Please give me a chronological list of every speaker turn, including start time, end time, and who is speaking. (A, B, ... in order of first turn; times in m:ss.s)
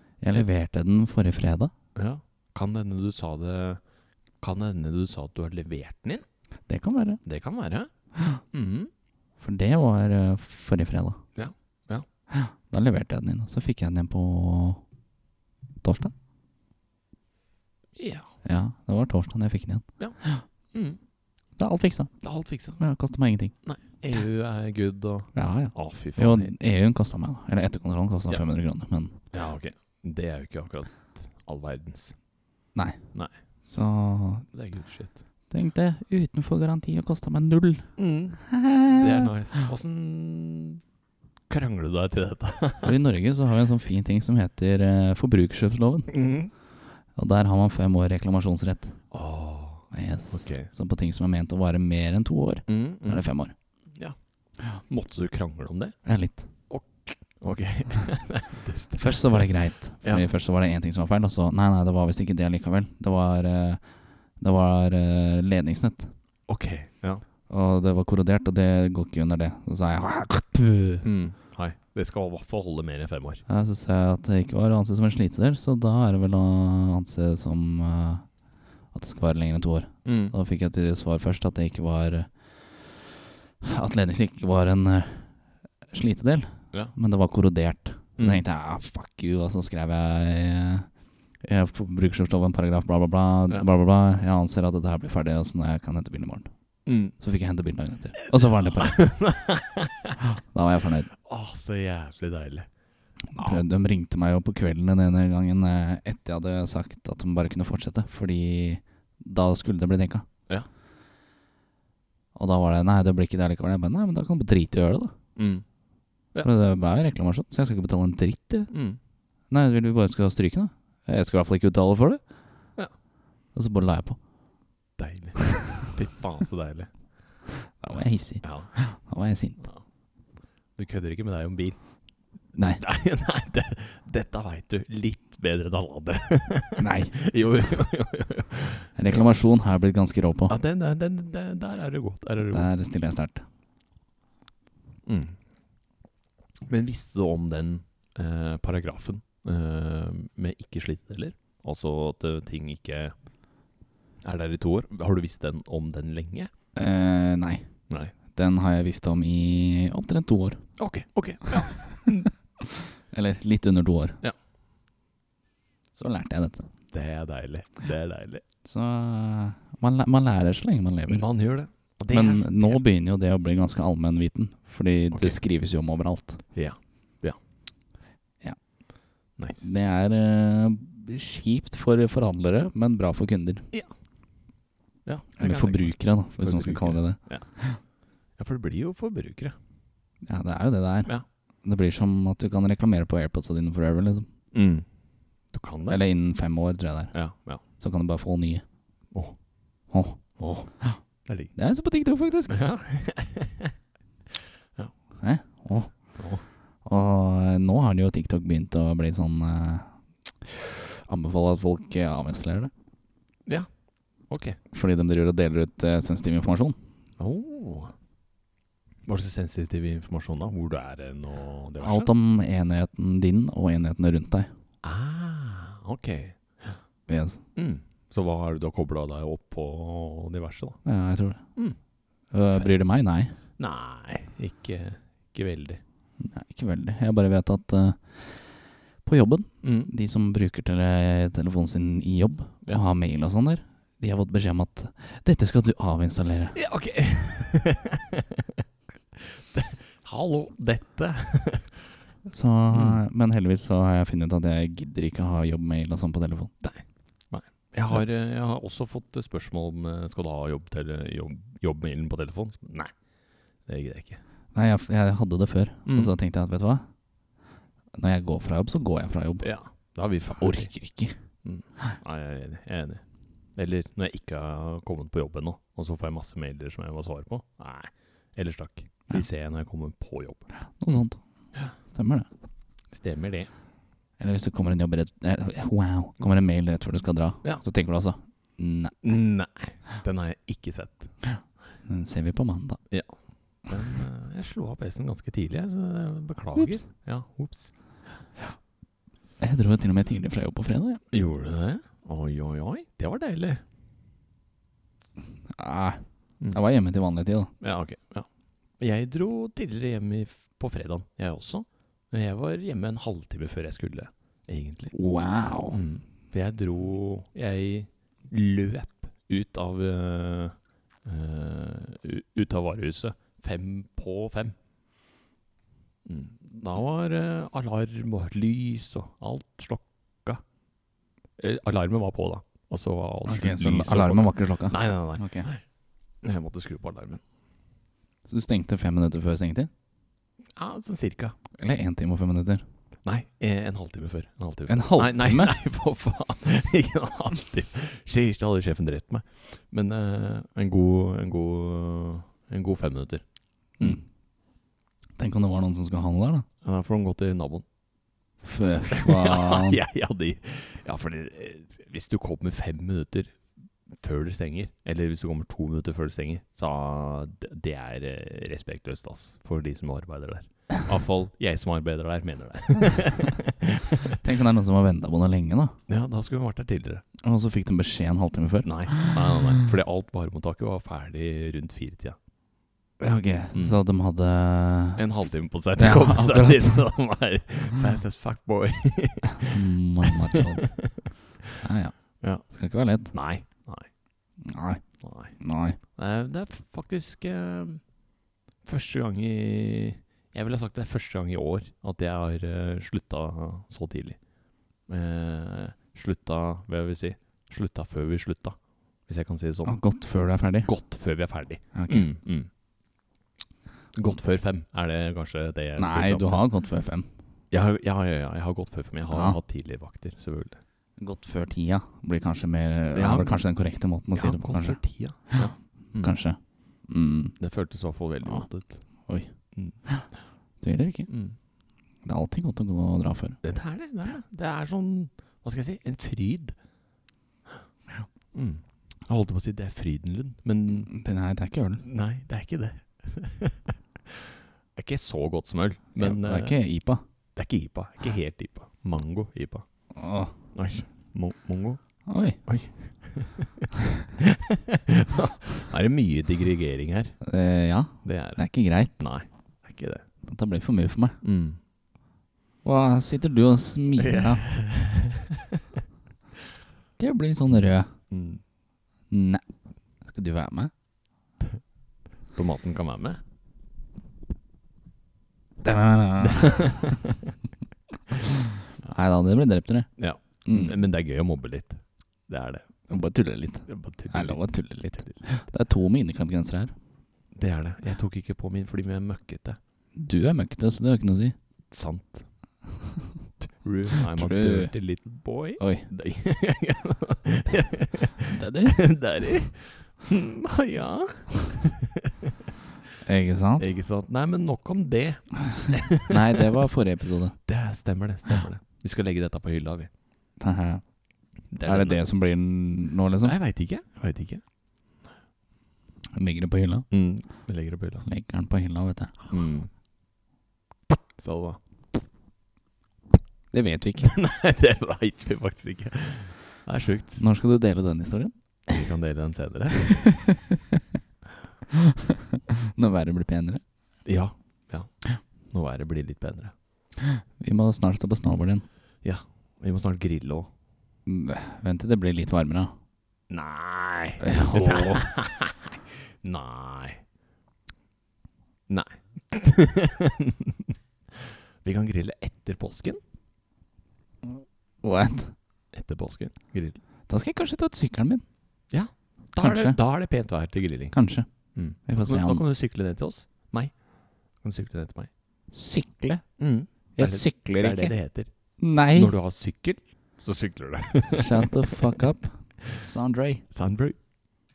0:00.2-0:01.7 A
0:01.9-0:03.8 B
0:04.4-0:06.2 B
0:06.7-0:07.2 A
0:07.2-0:07.9 B
0:08.5-0:08.9 B
0:09.4-0:11.2 A
0:11.4-0:12.0 B
0:12.3-0:14.8 A
0:15.8-0:16.1 A
0:18.0-0:18.3 B
0:18.4-0:20.4 A
0:20.7-0:21.0 B
0:21.6-0:22.2 A
0:22.2-0:22.8 B
0:22.8-0:23.5 A
0:23.6-0:26.5 B
0:25.3-0:29.1 A
0:29.3-0:32.2 B
0:32.7-0:34.5 A
0:34.5-0:35.2 B
0:35.5-0:37.9 A
0:38.0-0:40.8 B
0:38.4-0:39.3 A
0:41.5-0:43.0 B
0:42.8-0:46.2 A
0:46.1-0:46.5 B
0:47.1-0:49.0 A
0:49.1-0:50.7 B
0:49.9-0:53.5 A
0:52.7-0:53.3 B
0:53.9-0:56.0 B
0:56.0-0:56.4 A
0:56.7-1:00.2 B
0:59.0-1:03.8 A
1:04.4-1:06.1 A
1:06.5-1:07.2 B
1:07.5-1:11.0 A
1:11.0-1:13.4 B
1:13.5-1:18.3 A
1:18.9-1:25.3 A
1:20.0-1:20.3 B
1:25.9-1:30.9 A
1:31.4-1:36.5 A
1:36.8-1:37.1 B
1:37.2-1:39.0 A
1:38.3-1:40.2 B
1:40.2-1:41.1 A
1:41.2-1:42.7 B
1:43.3-1:50.2 A
1:43.4-1:43.6 B
1:52.3-1:55.1 A
1:55.4-1:55.6 B
1:56.4-1:58.7 A
1:58.7-1:59.0 B
1:59.5-2:02.2 A
2:03.5-2:04.2 A
2:05.0-2:07.0 B
2:07.6-2:09.6 A
2:08.4-2:08.7 B
2:09.6-2:09.8 B
2:10.8-2:11.8 B
2:12.5-2:12.8 A
2:12.8-2:19.4 B
2:16.8-2:17.1 A
2:19.0-2:20.5 A
2:20.5-2:22.7 B
2:22.5-2:23.4 A
2:25.0-2:25.4 B
2:26.7-2:33.1 B
2:34.2-2:36.5 B
2:36.7-2:37.7 A
2:37.9-2:38.1 B
2:38.3-2:40.6 A
2:40.8-2:42.3 B
2:42.6-2:44.2 A
2:45.9-2:46.7 A
2:46.9-2:48.4 B
2:48.6-2:51.3 A
2:51.1-2:52.8 B
2:52.1-2:56.4 A
2:55.1-2:55.4 B
2:56.5-2:57.4 B
2:59.4-2:59.7 B
2:59.6-3:03.7 A
3:05.0-3:07.5 B
3:05.4-3:07.8 A
3:08.4-3:09.5 B
3:10.2-3:11.1 A
3:11.6-3:14.3 A
3:14.5-3:14.8 B
3:15.5-3:16.0 B
3:15.9-3:17.1 A
3:17.1-3:17.6 B
3:17.7-3:18.6 A
3:19.9-3:20.2 A
3:20.4-3:20.7 B
3:21.2-3:21.5 B
3:21.5-3:22.6 A
3:22.5-3:23.7 B
3:25.2-3:26.2 A
3:26.1-3:26.4 B
3:26.8-3:32.7 A
3:34.2-3:34.6 B
3:34.7-3:36.8 A
3:37.2-3:37.9 B
3:39.1-3:42.1 B
3:41.8-3:44.5 A
3:44.8-3:46.8 B
3:47.1-3:47.4 A
3:47.5-3:50.8 B
3:50.8-3:51.4 A
3:52.3-3:53.3 A
3:52.5-3:52.7 B
3:53.6-3:55.8 B
3:56.2-3:58.5 A
3:59.0-4:06.6 A
3:59.6-3:59.9 B
4:06.5-4:08.4 B
4:09.2-4:11.9 B
4:12.2-4:16.5 A
4:12.7-4:13.0 B
4:16.6-4:22.9 B
4:23.6-4:24.2 B
4:24.5-4:26.8 A
4:25.8-4:26.1 B
4:28.0-4:29.5 A
4:29.4-4:30.7 B
4:30.4-4:31.1 A
4:31.4-4:33.0 B
4:33.6-4:40.5 B
4:40.6-4:41.2 A
4:41.8-4:42.3 A
4:42.9-4:43.5 B
4:44.2-4:49.0 A
4:49.0-4:51.2 B
4:51.8-4:52.8 A
4:52.9-4:57.7 B
4:56.6-4:56.8 A
4:59.4-5:01.0 A
5:01.1-5:03.6 B
5:05.5-5:07.5 A
5:07.6-5:08.3 B
5:08.8-5:14.9 B
5:14.9-5:15.8 A
5:15.7-5:24.6 B
5:26.0-5:30.4 B
5:31.4-5:35.6 B
5:33.3-5:35.5 A
5:36.2-5:37.2 B
5:38.2-5:39.7 A
5:40.6-5:41.4 B
5:41.6-5:42.6 A
5:43.0-5:53.2 B
5:44.7-5:45.6 A
5:53.8-5:54.0 B
5:55.2-5:56.4 A
5:56.6-5:57.6 B
5:58.4-5:59.8 A
5:58.9-6:14.2 B
6:14.1-6:15.8 A
6:15.9-6:17.0 B
6:17.2-6:19.0 A
6:18.6-6:22.2 B
6:23.0-6:25.0 A
6:23.5-6:23.8 B
6:25.0-6:31.1 B
6:25.8-6:26.8 A
6:29.5-6:30.8 A
6:31.6-6:33.1 A
6:32.2-6:32.4 B
6:33.1-6:33.9 B
6:34.4-6:35.8 A
6:35.0-6:35.4 B
6:35.9-6:37.9 B
6:38.6-6:44.2 B
6:44.9-6:49.8 B
6:49.6-6:50.7 A
6:50.6-6:52.5 B
6:51.7-6:52.1 A
6:53.9-6:56.5 B
6:55.8-6:57.1 A
6:57.5-7:00.6 B
6:59.1-6:59.4 A
7:01.0-7:04.8 A
7:02.9-7:03.4 B
7:04.1-7:06.1 B
7:06.0-7:07.4 A
7:07.4-7:08.8 B
7:09.5-7:09.8 B
7:10.6-7:11.1 A
7:11.1-7:11.4 B
7:12.0-7:13.4 A
7:13.4-7:16.6 B
7:18.3-7:20.9 B
7:20.9-7:21.8 A
7:21.8-7:26.6 B
7:26.0-7:27.0 A
7:27.4-7:29.6 B
7:30.0-7:30.3 A
7:30.5-7:31.8 B
7:32.1-7:32.4 A
7:32.4-7:37.2 B
7:37.2-7:38.9 A
7:38.0-7:38.5 B
7:39.0-7:40.0 B
7:40.2-7:41.2 A
7:41.2-7:41.6 B
7:42.6-7:44.5 A
7:44.0-7:45.4 B
7:47.0-7:47.9 A
7:48.1-7:48.4 B
7:49.1-7:49.4 A
7:50.0-7:50.7 A
7:52.3-7:53.2 B
7:55.6-7:56.9 A
7:56.2-7:57.3 B
7:58.8-7:59.9 A
8:00.0-8:02.7 B
8:00.4-8:00.8 A
8:02.9-8:06.7 A
8:03.6-8:05.3 B
8:07.3-8:09.6 B
8:09.9-8:11.3 A
8:11.7-8:12.3 B
8:13.4-8:22.3 B
8:14.0-8:14.7 A
8:15.6-8:15.9 A
8:18.3-8:18.9 A
8:23.0-8:23.7 A
8:23.6-8:26.4 B
8:26.0-8:27.4 A
8:27.4-8:29.9 B
8:30.4-8:30.8 A
8:31.5-8:32.0 B
8:31.6-8:33.3 A
8:33.2-8:34.4 B
8:36.1-8:36.9 A
8:36.9-8:38.1 B
8:38.0-8:39.3 A
8:39.3-8:39.7 B
8:41.2-8:41.6 B
8:43.5-8:44.1 A
8:44.0-8:47.2 B
8:47.2-8:48.3 A
8:48.7-8:50.0 B
8:51.7-8:53.6 A
8:54.0-8:54.9 B
8:55.5-8:56.5 B
8:57.1-8:58.6 A
8:59.0-9:00.5 B
9:01.0-9:02.7 A
9:03.3-9:07.0 B
9:04.2-9:05.1 A
9:08.7-9:13.0 B
9:14.2-9:15.3 A
9:15.7-9:16.8 B
9:17.1-9:18.2 A
9:18.7-9:21.0 B
9:19.4-9:19.8 A
9:20.9-9:22.4 A
9:21.5-9:23.8 B
9:24.4-9:25.1 B
9:25.5-9:26.2 A
9:26.4-9:28.3 B
9:27.0-9:27.9 A
9:28.6-9:29.1 A
9:28.9-9:31.9 B
9:31.1-9:33.4 A
9:33.5-9:34.0 B